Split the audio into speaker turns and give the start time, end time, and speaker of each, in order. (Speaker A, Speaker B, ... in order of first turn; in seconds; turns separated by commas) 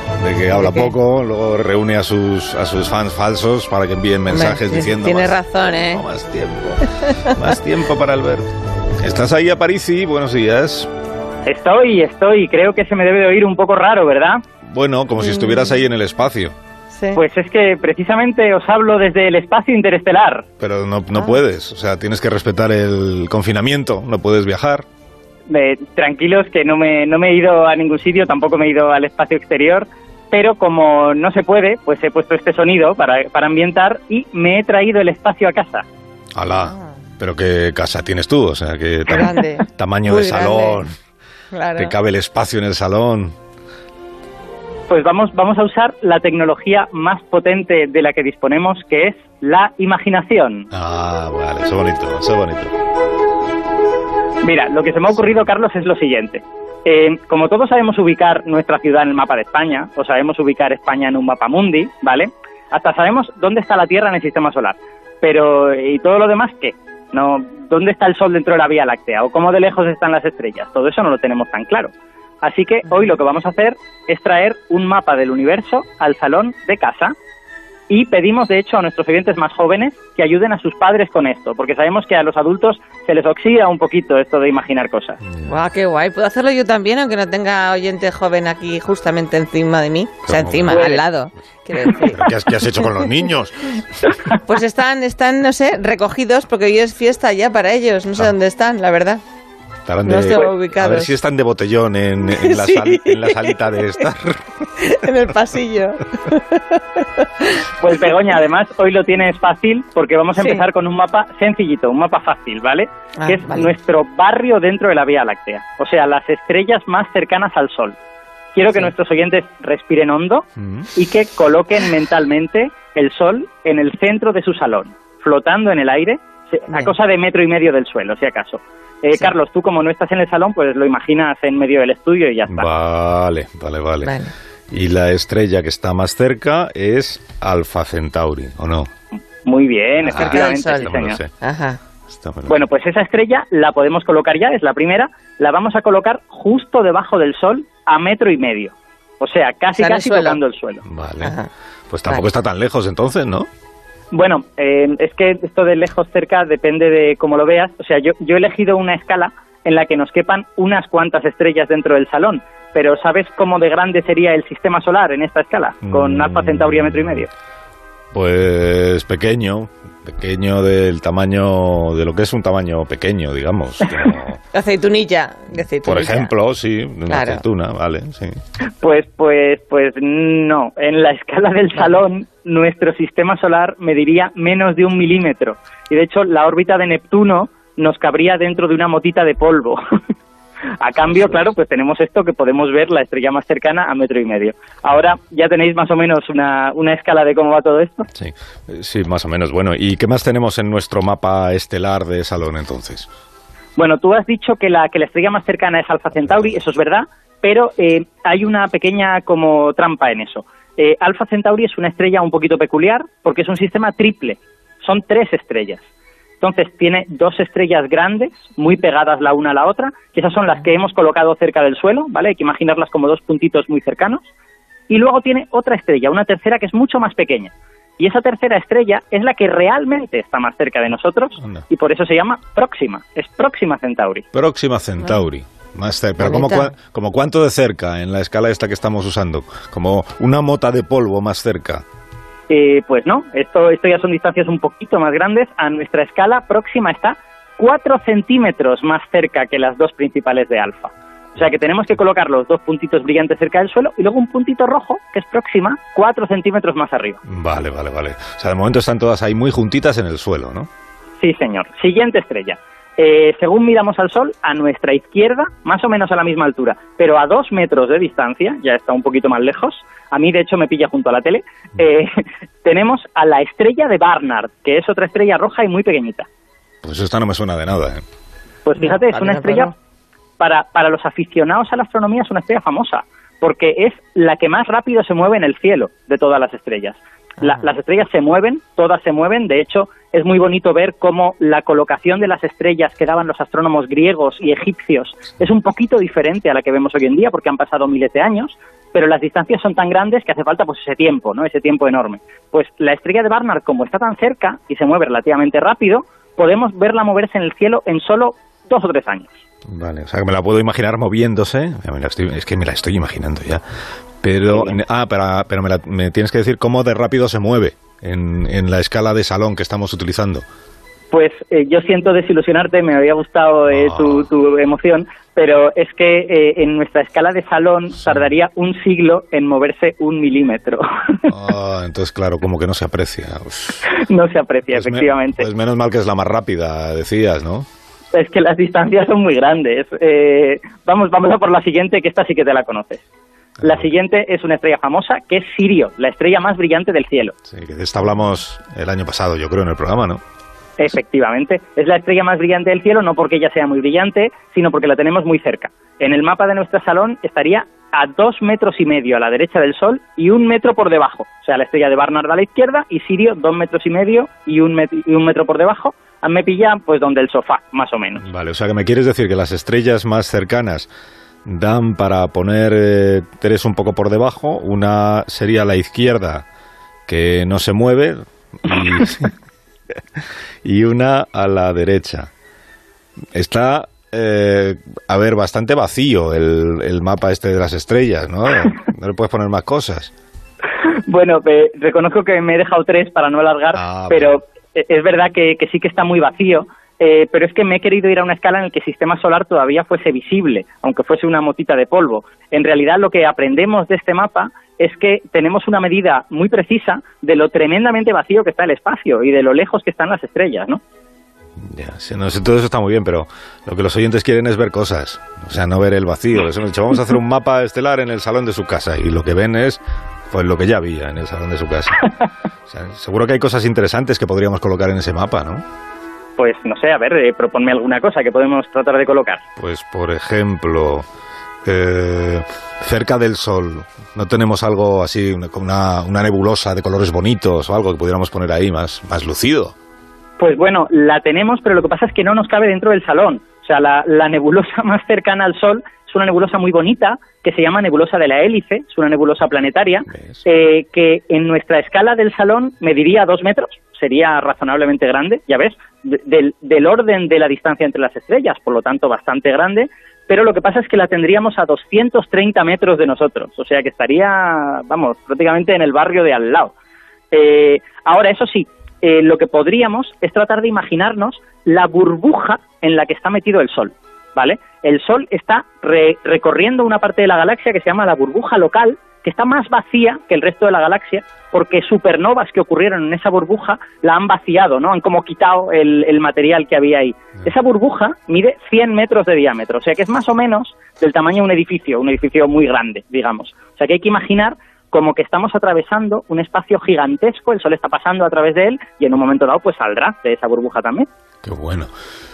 Speaker A: 0.2-8.5, Speaker B: 0.6-0.9, Speaker B: 4.3-6.0, Speaker B: 7.0-7.4, Speaker A: 9.0-10.9, Speaker C: 11.4-14.4, Speaker A: 14.7-16.5, Speaker B: 15.2-15.8, Speaker B: 16.9-17.2, Speaker C: 17.1-20.4, Speaker A: 20.6-24.8, Speaker B: 21.1-21.4, Speaker C: 25.5-35.8, Speaker A: 36.3-40.9, Speaker B: 39.1-40.8, Speaker B: 41.5-41.9, Speaker A: 41.7-43.3, Speaker C: 44.9-50.7, Speaker A: 50.7-52.7, Speaker C: 54.4-77.1, Speaker C: 77.9-85.2, Speaker B: 85.5-92.3, Speaker A: 90.2-91.0, Speaker C: 90.7-91.0, Speaker A: 92.0-93.8, Speaker B: 94.3-99.2, Speaker A: 99.8-104.5, Speaker B: 100.0-101.1, Speaker B: 102.3-104.0, Speaker B: 104.8-107.6, Speaker C: 107.8-118.0, Speaker B: 110.4-110.6, Speaker B: 113.2-113.7, Speaker C: 118.5-132.7, Speaker A: 120.6-120.9, Speaker A: 132.5-134.1, Speaker B: 134.0-134.3, Speaker A: 134.7-138.9, Speaker C: 139.4-141.2, Speaker A: 140.0-141.3, Speaker B: 140.1-141.8, Speaker A: 142.1-142.6, Speaker C: 142.5-150.8, Speaker B: 149.8-150.4, Speaker A: 150.8-151.3, Speaker B: 151.2-151.5, Speaker A: 151.9-153.5, Speaker C: 154.1-167.3, Speaker A: 165.8-167.2, Speaker A: 168.1-174.4, Speaker B: 174.0-176.3, Speaker A: 175.8-178.4, Speaker B: 177.1-177.4, Speaker C: 178.7-189.8, Speaker C: 190.8-198.1, Speaker A: 198.1-203.1, Speaker C: 203.8-215.8, Speaker C: 216.4-224.3, Speaker C: 224.9-234.2, Speaker A: 231.4-231.6, Speaker A: 234.3-241.8, Speaker B: 236.2-236.7, Speaker C: 242.5-257.2, Speaker A: 257.2-260.7, Speaker C: 261.2-276.3, Speaker A: 276.8-278.0, Speaker C: 278.6-279.7, Speaker B: 278.8-279.7, Speaker C: 280.4-309.4, Speaker A: 309.6-313.6, Speaker A: 314.2-320.4, Speaker C: 314.5-314.8, Speaker C: 321.1-331.3, Speaker A: 323.7-324.3, Speaker A: 331.3-333.9, Speaker C: 333.8-335.5, Speaker A: 334.7-337.6, Speaker C: 338.1-343.0, Speaker A: 343.6-343.9, Speaker C: 343.6-347.3, Speaker A: 347.5-350.2, Speaker C: 350.8-368.2, Speaker A: 368.2-370.9, Speaker A: 371.4-376.4, Speaker A: 377.1-379.3, Speaker A: 380.6-382.3, Speaker A: 383.3-390.1, Speaker C: 390.8-410.8, Speaker A: 393.7-394.4, Speaker A: 411.6-422.1, Speaker A: 422.7-425.6, Speaker C: 426.4-429.4, Speaker A: 429.6-431.0, Speaker A: 431.6-439.7, Speaker C: 440.4-466.7, Speaker A: 450.1-450.4, Speaker C: 467.3-501.1, Speaker A: 501.4-501.9